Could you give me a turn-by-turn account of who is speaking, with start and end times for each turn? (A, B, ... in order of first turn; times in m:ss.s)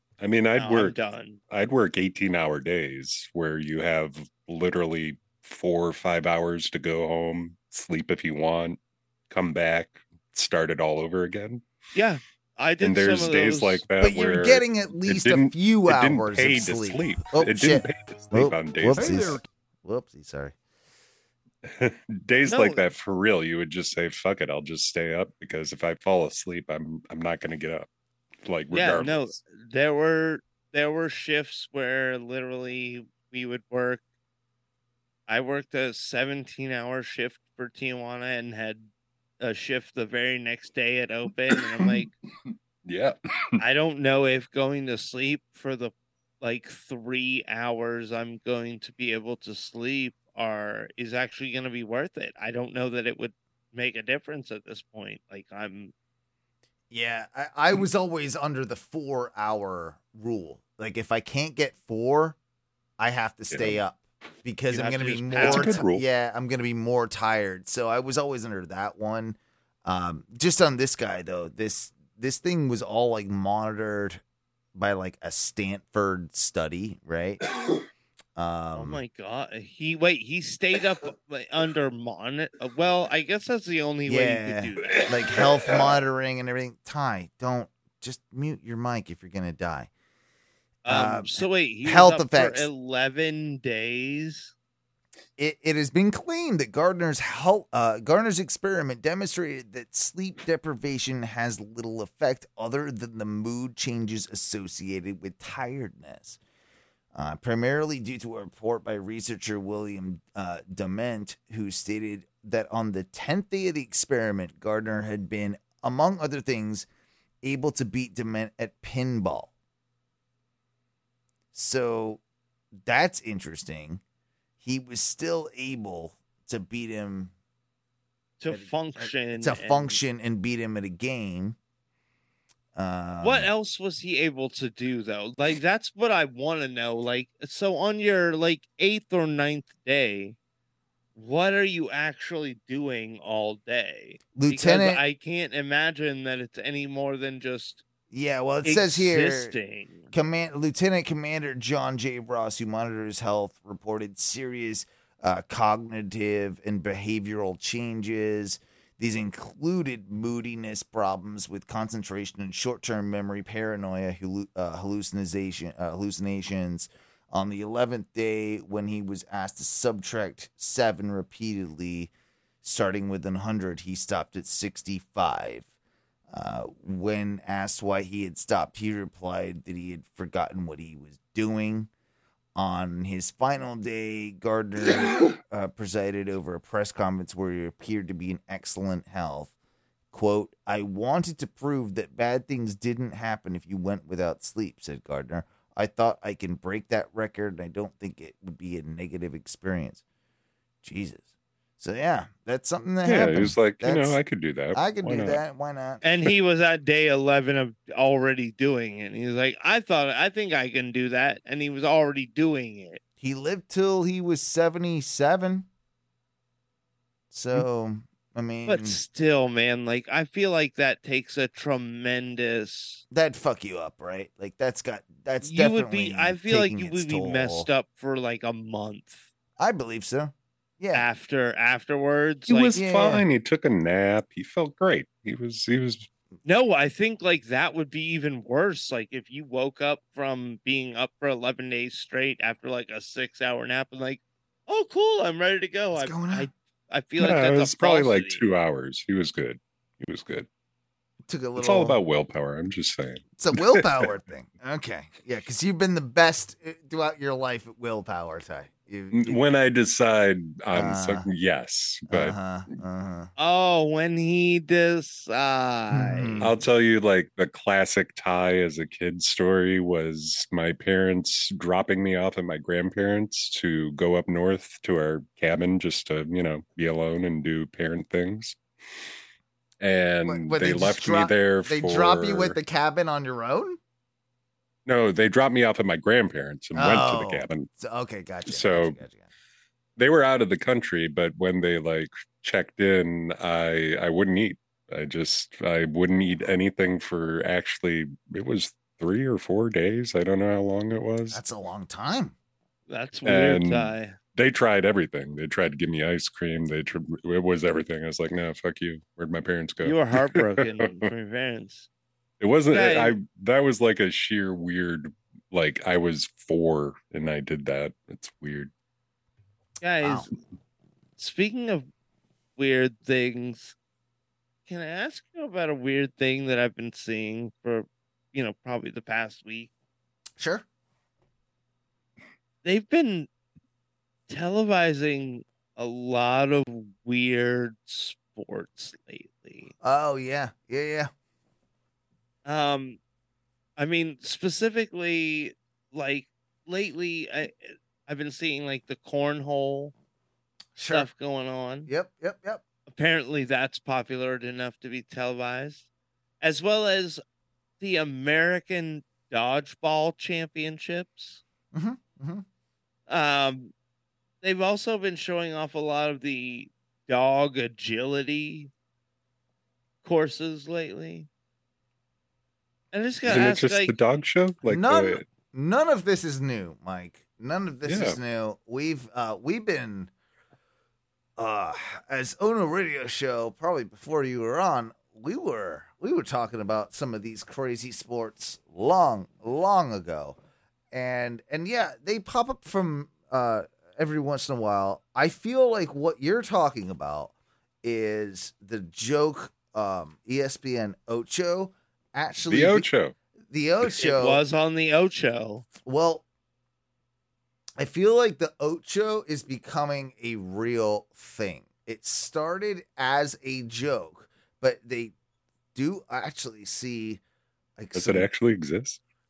0:00.2-0:01.0 A
0:00.6-0:01.4 B
0:01.5-0:08.8 A
0:09.3-0:11.6 A
0:11.9-0:13.8 B
0:12.8-0:19.4 A
0:14.0-0:20.5 C
0:21.6-0:27.9 A
0:22.4-0:22.8 B
0:28.4-0:29.4 A
0:28.7-0:34.0 B
0:35.3-0:38.9 B
0:39.4-0:42.1 B
0:42.8-0:43.2 A
0:43.6-0:55.9 B
0:56.9-1:02.4 C
1:03.0-1:14.2 C
1:03.5-1:03.8 A
1:04.7-1:05.8 B
1:05.4-1:06.0 A
1:14.7-1:17.4 C
1:18.4-1:19.0 C
1:18.7-1:25.1 B
1:24.0-1:29.9 C
1:30.8-1:32.7 C
1:30.8-1:34.5 B
1:35.4-1:46.4 C
1:47.1-1:56.9 C
1:57.4-1:59.5 C
2:01.5-2:02.2 C
2:02.8-2:04.0 C
2:04.6-2:07.3 C
2:08.4-2:10.0 B
2:08.5-2:11.6 C
2:12.7-2:13.5 C
2:13.2-2:20.4 B
2:21.2-2:27.8 B
2:24.3-2:25.0 C
2:28.1-2:29.5 C
2:28.6-2:30.1 B
2:30.1-2:52.1 C
2:52.6-2:55.7 C
2:56.3-3:01.9 C
3:02.6-3:09.5 C
3:10.1-3:20.0 C
3:20.8-3:21.2 C
3:21.8-3:24.2 C
3:23.0-3:25.4 A
3:24.7-3:26.0 C
3:26.0-3:33.0 B
3:33.2-3:35.7 C
3:37.3-3:39.0 C
3:38.6-3:43.0 B
3:43.1-3:47.7 C
3:45.4-3:49.3 B
3:49.6-3:51.0 C
3:50.9-3:52.8 B
3:52.5-3:56.1 A
3:52.7-3:53.2 C
3:56.4-4:08.4 B
4:05.9-4:06.5 C
4:07.2-4:10.5 A
4:11.3-4:12.0 C
4:11.6-4:14.1 A
4:13.4-4:19.4 C
4:19.1-4:22.4 A
4:20.7-4:21.3 C
4:22.1-4:23.3 C
4:23.4-4:26.4 B
4:25.9-4:26.6 C
4:26.4-4:38.6 A
4:39.8-4:42.6 A
4:40.3-4:43.8 C
4:44.8-4:47.7 A
4:46.7-4:49.3 C
4:48.5-4:49.0 A
4:50.0-5:01.4 A
5:01.3-5:02.3 C
5:02.9-5:04.2 B
5:03.2-5:11.0 A
5:09.8-5:11.9 B
5:12.4-5:18.7 A
5:12.7-5:13.1 B
5:19.8-5:20.3 B
5:21.2-5:21.9 B
5:22.6-5:23.7 B
5:24.7-5:29.7 B
5:30.4-5:30.6 C
5:32.6-5:33.3 B
5:34.3-5:39.7 B
5:39.8-5:41.1 C
5:42.4-5:43.0 B
5:43.8-5:49.9 B
5:50.8-5:51.1 C
5:50.9-5:51.9 B
5:51.9-5:52.6 C
5:52.9-5:55.8 B
5:56.4-5:57.2 B
5:57.8-6:01.4 B
6:01.7-6:02.4 C
6:03.1-6:03.7 B
6:04.4-6:08.7 B
6:10.0-6:11.3 B
6:12.9-6:13.9 B
6:13.3-6:15.2 A
6:14.6-6:20.1 C
6:17.8-6:18.2 A
6:21.4-6:30.4 C
6:30.9-6:42.9 C
6:42.4-6:43.1 A
6:43.5-6:44.4 C
6:44.0-6:45.6 B
6:45.8-6:46.2 C
6:47.8-6:55.1 C
6:55.7-6:57.2 C
6:57.8-6:58.3 C
6:57.9-6:59.0 A